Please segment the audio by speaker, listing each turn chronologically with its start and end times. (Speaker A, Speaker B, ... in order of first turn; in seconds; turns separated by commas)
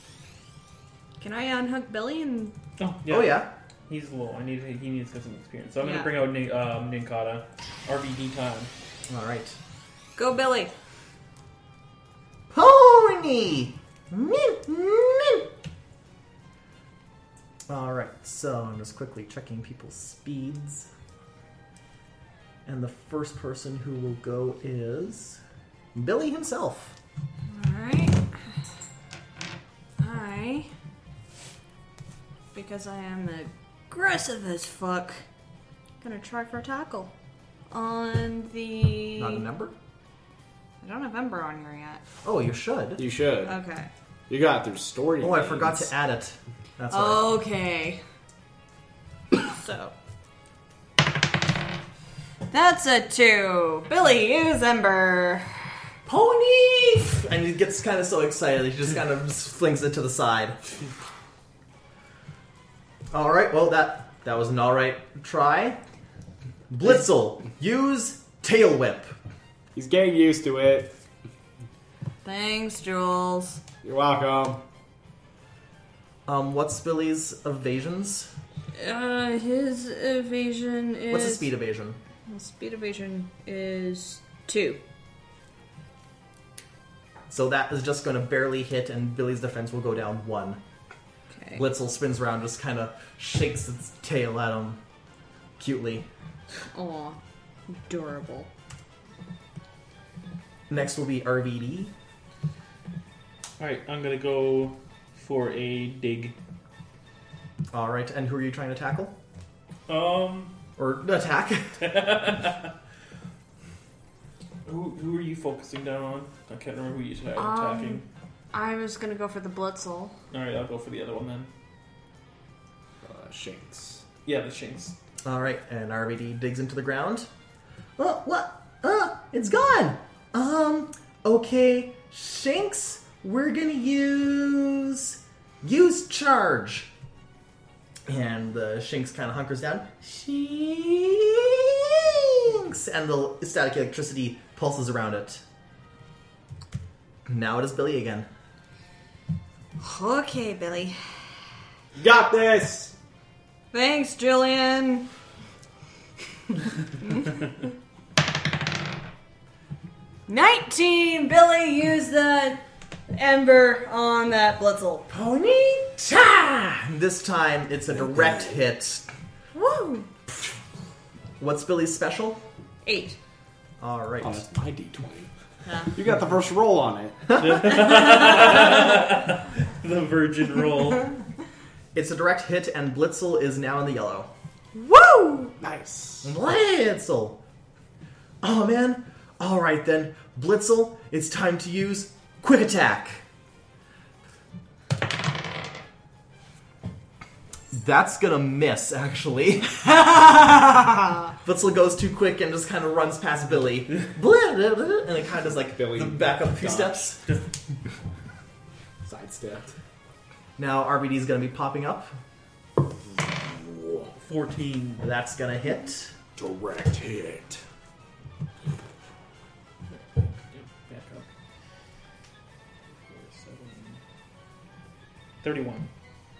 Speaker A: 1.2-2.5, Speaker B: 2.8-8.7, Speaker C: 3.1-3.5, Speaker A: 5.8-6.1, Speaker C: 9.1-9.6, Speaker A: 10.2-10.7, Speaker C: 12.5-15.5, Speaker C: 17.7-20.9, Speaker C: 22.6-25.4, Speaker C: 25.9-26.9, Speaker A: 27.5-28.4, Speaker A: 30.0-30.7, Speaker A: 32.5-35.2, Speaker A: 36.0-37.1, Speaker A: 37.7-39.4, Speaker C: 39.2-39.7, Speaker A: 40.8-42.0, Speaker C: 42.2-43.0, Speaker D: 43.0-43.6, Speaker A: 43.4-43.9, Speaker D: 44.3-45.9, Speaker C: 45.2-47.4, Speaker A: 46.9-48.0, Speaker A: 49.4-49.9, Speaker A: 52.5-55.7, Speaker C: 56.0-60.6, Speaker C: 63.1-65.8, Speaker C: 66.7-69.1, Speaker D: 69.7-70.9, Speaker A: 72.2-73.6, Speaker D: 73.8-74.6, Speaker C: 76.3-78.3, Speaker A: 78.7-81.5, Speaker C: 81.1-82.0, Speaker A: 82.3-84.8, Speaker C: 87.3-90.6, Speaker A: 91.3-91.6, Speaker C: 91.5-94.8, Speaker C: 95.6-96.1, Speaker A: 96.7-98.5, Speaker C: 100.7-101.9, Speaker B: 103.6-106.3, Speaker C: 107.7-109.1, Speaker B: 109.9-110.5, Speaker C: 110.8-111.8, Speaker B: 111.8-112.7, Speaker B: 114.7-118.0, Speaker A: 117.4-120.1, Speaker B: 120.3-121.5, Speaker D: 123.0-124.0, Speaker B: 124.2-125.0, Speaker C: 125.2-127.3, Speaker C: 128.0-136.9, Speaker C: 138.1-145.4, Speaker C: 147.2-148.3, Speaker A: 149.8-151.5, Speaker D: 151.9-152.9, Speaker A: 153.7-155.1, Speaker A: 157.0-157.4, Speaker A: 160.3-165.1, Speaker C: 165.1-169.1, Speaker A: 169.5-170.1, Speaker C: 171.4-172.4, Speaker A: 172.8-173.2, Speaker C: 173.8-174.4, Speaker D: 174.2-175.3, Speaker A: 175.7-175.9, Speaker D: 175.9-177.4, Speaker B: 177.3-181.1, Speaker C: 181.9-185.4, Speaker D: 185.6-186.3, Speaker C: 186.2-187.4, Speaker C: 188.4-193.2, Speaker C: 197.7-200.6, Speaker C: 201.4-207.2, Speaker D: 205.7-207.1, Speaker D: 209.0-209.7, Speaker C: 210.6-212.1, Speaker D: 213.0-214.1, Speaker B: 214.2-215.0, Speaker C: 215.0-216.1, Speaker D: 216.3-217.6, Speaker B: 220.2-221.3, Speaker B: 223.1-224.0, Speaker B: 225.4-225.9